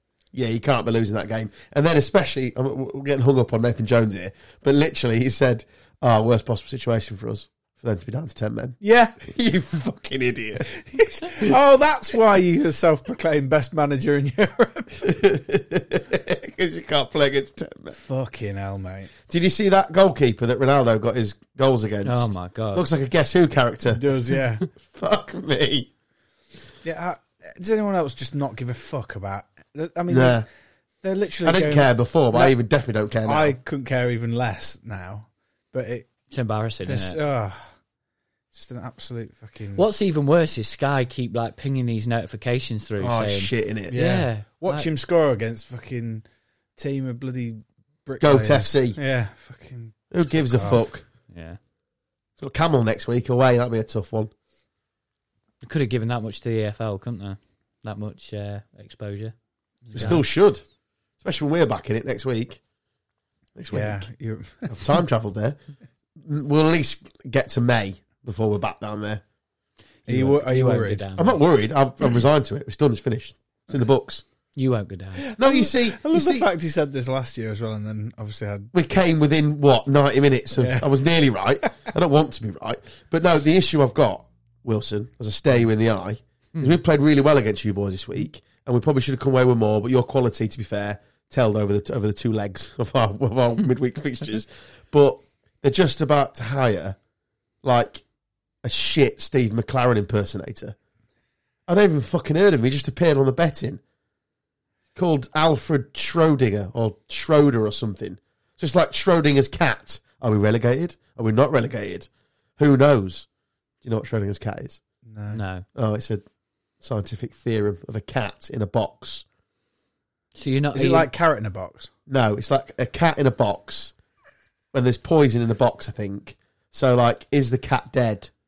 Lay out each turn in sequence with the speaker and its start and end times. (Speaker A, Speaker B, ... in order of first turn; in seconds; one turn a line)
Speaker A: 0.3-10.7
Speaker B: 8.8-9.2
Speaker B: 10.9-15.1
Speaker A: 15.0-18.0
Speaker B: 18.0-19.1
Speaker A: 19.3-24.0
Speaker C: 22.0-22.9
Speaker B: 23.9-24.7
Speaker A: 24.8-25.9
Speaker B: 26.8-30.4
Speaker A: 30.1-30.4
Speaker B: 31.0-32.5
Speaker A: 31.4-33.5
Speaker B: 33.2-36.1
Speaker C: 36.3-37.2
Speaker B: 36.8-37.8
Speaker B: 38.5-39.9
Speaker C: 39.7-44.9
Speaker A: 43.0-44.0
Speaker B: 43.9-46.2
Speaker B: 46.8-50.8
Speaker A: 48.2-49.0
Speaker A: 50.1-51.0
Speaker C: 51.3-51.6
Speaker A: 52.4-54.3
Speaker C: 55.6-59.3
Speaker C: 59.9-60.2
Speaker B: 59.9-60.2
Speaker A: 59.9-60.6
Speaker A: 61.2-62.6
Speaker A: 63.5-64.1
Speaker B: 63.7-64.8
Speaker A: 64.7-65.6
Speaker A: 66.2-69.2
Speaker C: 70.0-71.4
Speaker B: 70.1-71.1
Speaker A: 71.2-74.2
Speaker C: 74.5-75.2
Speaker B: 75.2-78.7
Speaker A: 75.4-76.5
Speaker A: 78.7-97.0
Speaker B: 80.6-80.9
Speaker A: 97.6-98.0
Speaker A: 98.6-100.8
Speaker A: 101.7-103.8
Speaker A: 104.9-113.3
Speaker A: 113.8-114.8
Speaker B: 115.0-115.4
Speaker C: 115.3-115.6
Speaker A: 115.7-116.2
Speaker A: 116.8-119.2
Speaker C: 120.3-121.1
Speaker B: 120.7-121.9
Speaker A: 122.1-123.9
Speaker A: 124.7-128.3